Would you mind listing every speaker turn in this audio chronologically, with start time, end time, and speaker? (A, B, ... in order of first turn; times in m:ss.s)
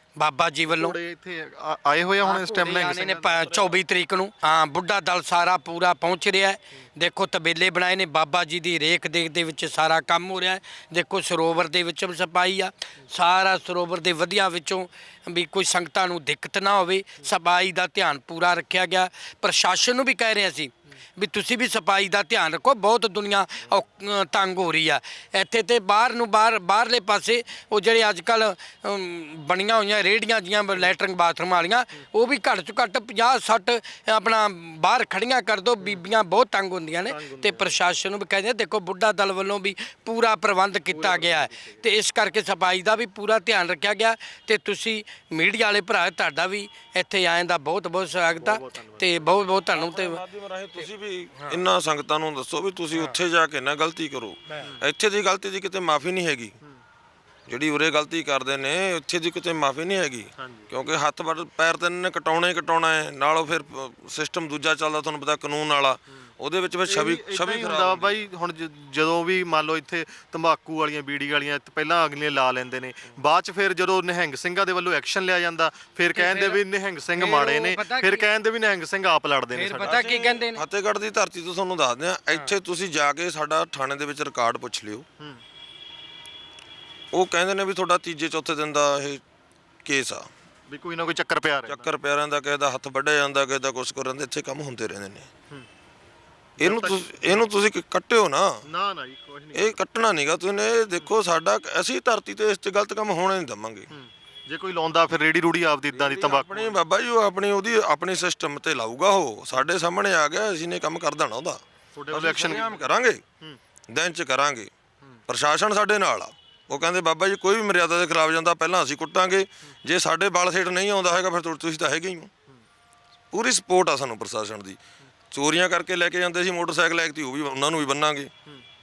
0:00.2-0:01.0 A
0:00.6-0:03.7 B
0:02.2-0:50.2 A
0:37.1-0:37.7 B
0:40.9-0:41.8 B
0:48.3-0:49.3 B
0:49.7-0:56.6 C
0:51.3-0:51.6 A
0:54.5-0:54.7 A
0:57.5-1:08.2 C
1:00.4-1:00.7 B
1:06.8-1:20.0 B
1:16.1-1:16.6 A
1:17.2-1:18.3 A
1:19.5-1:20.6 A
1:19.8-1:25.0 C
1:27.1-1:29.2 C
1:29.8-1:30.3 C
1:30.7-1:31.9 B
1:31.7-1:35.3 C
1:36.6-1:37.4 B
1:36.6-1:38.6 C
1:38.6-1:39.8 B
1:39.5-1:43.9 C
1:43.9-1:46.8 B
1:45.9-1:53.2 C
1:51.9-1:52.8 B
1:53.9-1:54.7 C
1:55.3-2:02.3 C
2:03.3-2:04.8 C
2:05.3-2:08.3 C